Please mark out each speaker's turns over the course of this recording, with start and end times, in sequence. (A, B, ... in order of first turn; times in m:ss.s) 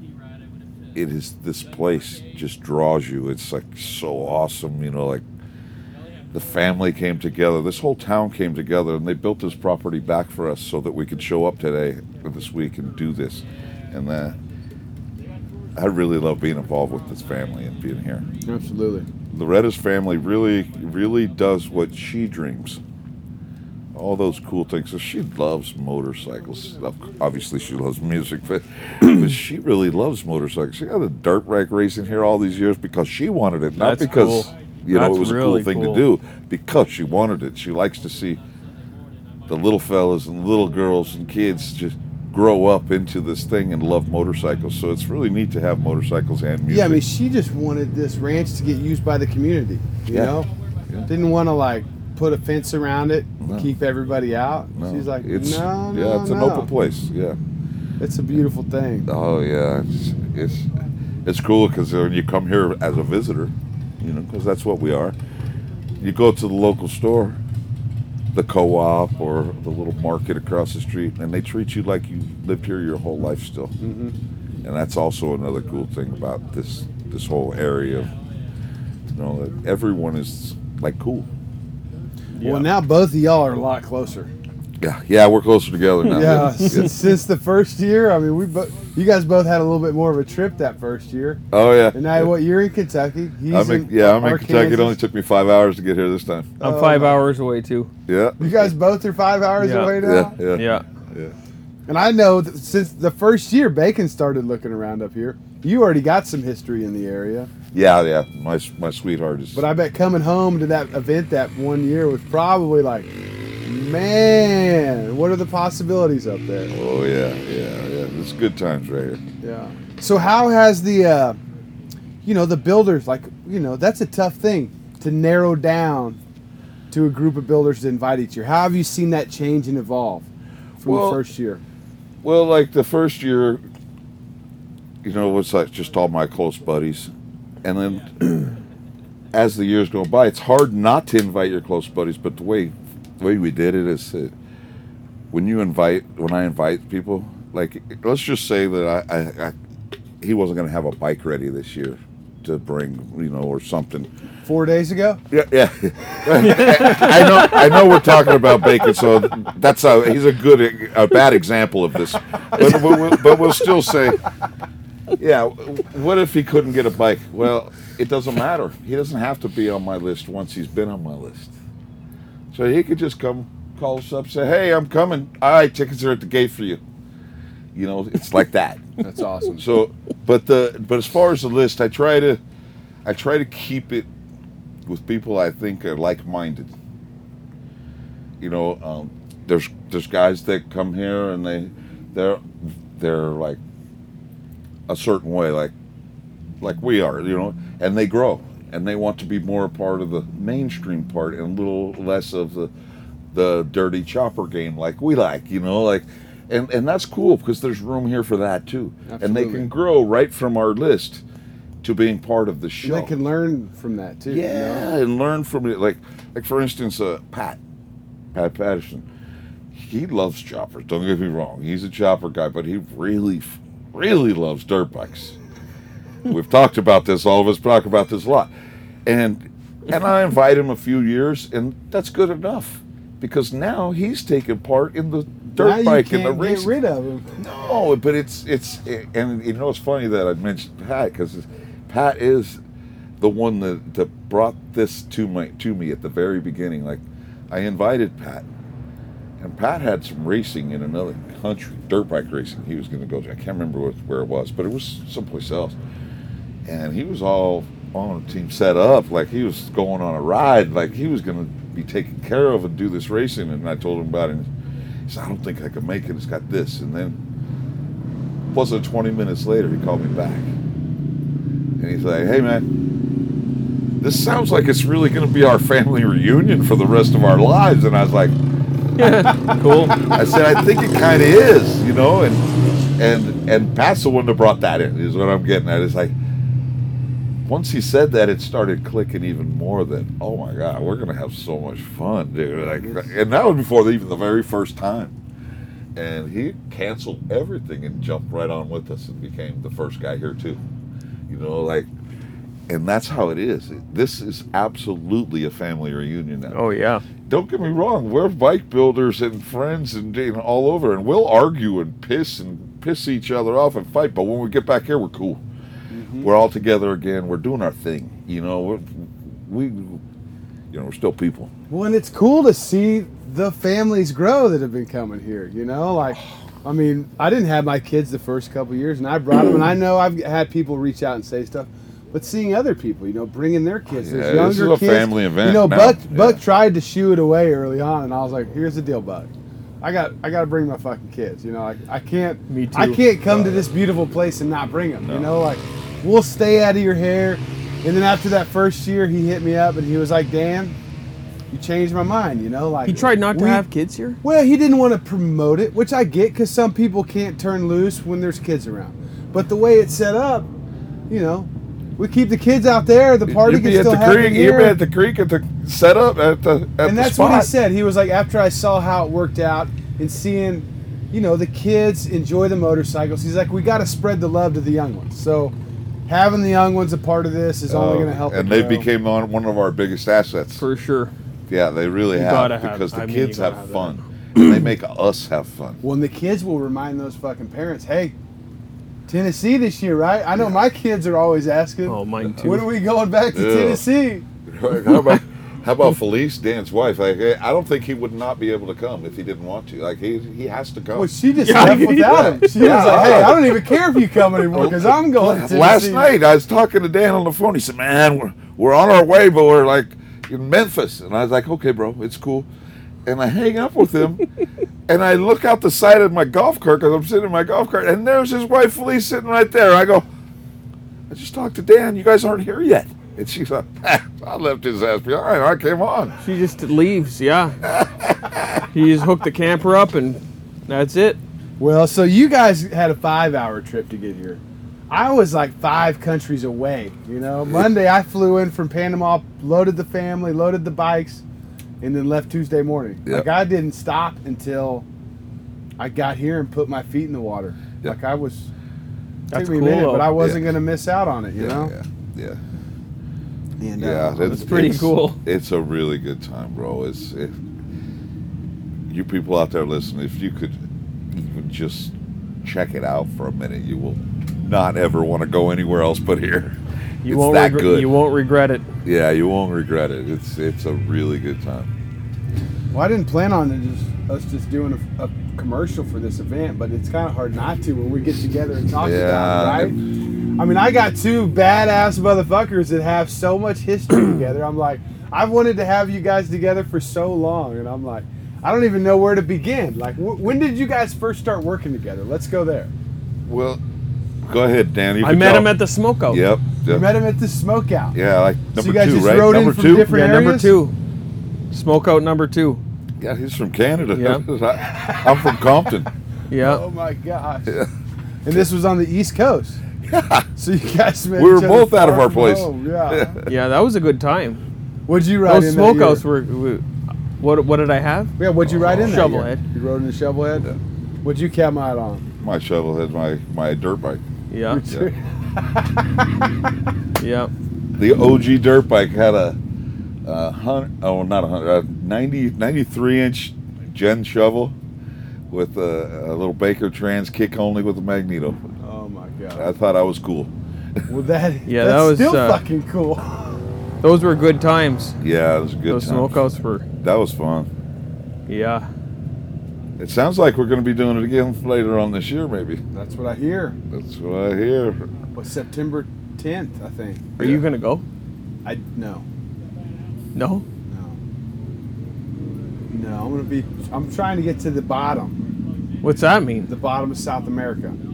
0:00.9-0:05.2 A
0:06.3-0:14.4 A
0:15.7-0:18.2 A
0:18.4-0:19.1 B
0:19.3-0:22.8 A
0:23.9-0:38.4 A
0:33.7-0:36.0 C
0:39.5-0:47.0 A
0:46.7-0:50.5 B
0:50.1-0:50.4 A
0:51.1-0:56.7 B
0:53.4-0:53.7 A
0:54.7-0:57.4 A
0:58.0-0:59.1 B
0:59.1-1:00.7 A
1:01.2-1:05.1 A
1:06.0-1:07.4 A
1:08.3-1:13.7 A
1:13.8-1:14.2 B
1:14.6-1:18.1 A
1:19.1-1:21.3 A
1:22.4-1:22.7 C
1:22.4-1:24.3 B
1:24.8-1:27.0 A
1:26.1-1:26.8 C
1:26.1-1:35.0 B
1:31.5-1:32.3 A
1:33.5-1:36.6 A
1:36.6-1:37.2 B
1:36.6-1:37.9 C
1:38.1-1:38.7 A
1:38.4-1:40.4 B
1:39.6-1:40.0 C
1:40.0-1:41.3 A
1:40.5-1:40.8 C
1:41.9-1:47.5 B
1:47.7-1:49.6 A
1:49.5-1:53.1 B
1:53.6-1:56.7 B
1:56.7-1:59.2 A
1:59.4-2:01.4 B
2:02.2-2:06.2 B
2:06.9-2:10.3 B
2:10.8-2:11.6 B
2:10.8-2:11.2 A
2:12.2-2:13.6 A
2:15.0-2:17.1 A
2:17.6-2:18.5 A
2:19.3-2:24.3 A
2:25.3-2:29.5 A
2:30.2-2:34.1 A
2:34.4-2:35.2 B
2:35.3-2:44.2 A
2:36.4-2:38.0 C
2:42.6-2:42.9 B
2:45.1-2:51.5 A
2:52.5-2:56.8 A
2:57.7-2:58.9 A
2:59.0-2:59.8 B
2:59.6-3:02.4 A
3:03.0-3:04.1 A
3:04.9-3:06.7 A
3:08.4-3:13.6 A
3:14.9-3:15.7 A
3:16.6-3:22.7 A
3:23.3-3:31.2 A
3:29.1-3:29.7 B
3:31.8-3:33.1 A
3:32.8-3:34.9 B
3:34.3-3:37.6 A
3:38.3-3:39.0 A
3:39.7-3:45.4 A
3:46.2-3:48.5 A
3:49.0-3:56.7 A
3:55.5-3:57.4 B
3:57.4-4:02.6 A
4:03.2-4:08.4 A
4:09.4-4:15.8 A
4:16.6-4:24.5 A
4:25.1-4:27.2 A
4:28.5-4:30.5 A
4:31.8-4:32.7 A
4:34.0-4:38.3 A
4:39.0-4:40.0 C
4:40.0-4:46.1 A
4:47.4-4:55.1 A
4:52.8-4:53.1 B
4:55.9-5:00.6 A
5:01.3-5:01.9 A
5:02.7-5:06.6 A
5:06.5-5:07.0 C
5:07.3-5:15.4 A
5:15.9-5:16.3 B
5:16.2-5:20.0 A
5:20.7-5:21.5 A
5:21.7-5:39.3 B
5:34.0-5:36.4 A
5:39.8-5:50.8 B
5:42.5-5:43.0 C
5:43.3-5:43.7 A
5:45.0-5:45.4 A
5:51.5-5:53.6 B
5:52.9-5:54.2 C
5:54.2-6:00.5 B
6:01.1-6:04.8 B
6:03.2-6:07.5 A
6:06.8-6:15.5 B
6:16.1-6:18.9 B
6:17.7-6:20.6 A
6:20.6-6:21.1 C
6:21.5-6:25.8 A
6:22.1-6:24.6 C
6:25.8-6:28.1 B
6:29.1-6:34.2 B
6:31.9-6:32.7 C
6:33.3-6:33.8 A
6:34.4-6:52.5 A
6:40.9-6:46.1 B
6:41.4-6:43.3 C
6:53.0-6:54.2 A
6:54.9-7:00.0 A
7:01.1-7:06.1 A
7:06.2-7:07.6 C
7:07.6-7:08.6 A
7:08.7-7:11.2 C
7:11.6-7:21.2 B
7:21.8-7:24.8 B
7:25.8-7:28.5 B
7:29.3-7:30.2 C
7:29.3-7:31.7 B
7:30.2-7:30.5 A
7:31.4-7:32.4 A
7:33.6-7:34.8 B
7:33.8-7:37.4 A
7:34.2-7:35.2 C
7:38.9-7:47.9 A
7:47.0-7:48.7 C
7:48.8-7:51.7 A
7:52.7-7:59.8 B
7:58.8-7:59.7 A
8:00.4-8:12.7 B
8:13.2-8:13.6 A
8:14.2-8:15.5 A
8:15.0-8:16.2 C
8:16.1-8:16.9 A
8:16.6-8:18.0 B
8:17.9-8:19.9 A
8:18.5-8:20.5 B
8:19.8-8:20.7 C
8:21.5-8:22.6 C
8:23.0-8:25.9 A
8:23.9-8:24.2 C
8:26.3-8:26.6 C
8:26.4-8:27.6 B
8:28.2-8:29.6 B
8:29.8-8:30.3 A
8:30.4-8:33.2 B
8:31.2-8:33.3 A
8:33.2-8:34.4 C
8:34.9-8:36.0 B
8:35.2-8:36.6 C
8:37.2-8:38.2 C
8:38.2-8:40.5 B
8:38.4-8:39.3 A
8:38.7-8:39.4 C
8:41.0-8:42.0 B
8:42.2-8:44.0 A
8:44.3-8:44.6 C
8:44.5-8:45.0 B
8:47.0-8:47.3 C
8:47.8-8:49.4 A
8:50.0-8:54.6 A
8:55.3-8:58.4 A
8:58.6-8:59.5 B
8:59.3-9:00.3 A
9:00.9-9:03.2 B
9:01.5-9:02.4 C
9:03.8-9:05.0 C
9:05.0-9:06.2 A
9:05.7-9:06.6 C
9:06.8-9:07.5 A
9:08.3-9:08.7 C
9:09.8-9:12.6 A
9:12.7-9:13.6 B
9:13.7-9:14.9 A
9:15.2-9:17.2 B
9:17.2-9:17.4 A
9:17.2-9:17.8 C
9:18.4-9:19.0 B
9:20.1-9:20.4 C
9:20.7-9:21.0 B
9:22.7-9:25.2 B
9:25.8-9:26.5 C
9:26.5-9:27.8 B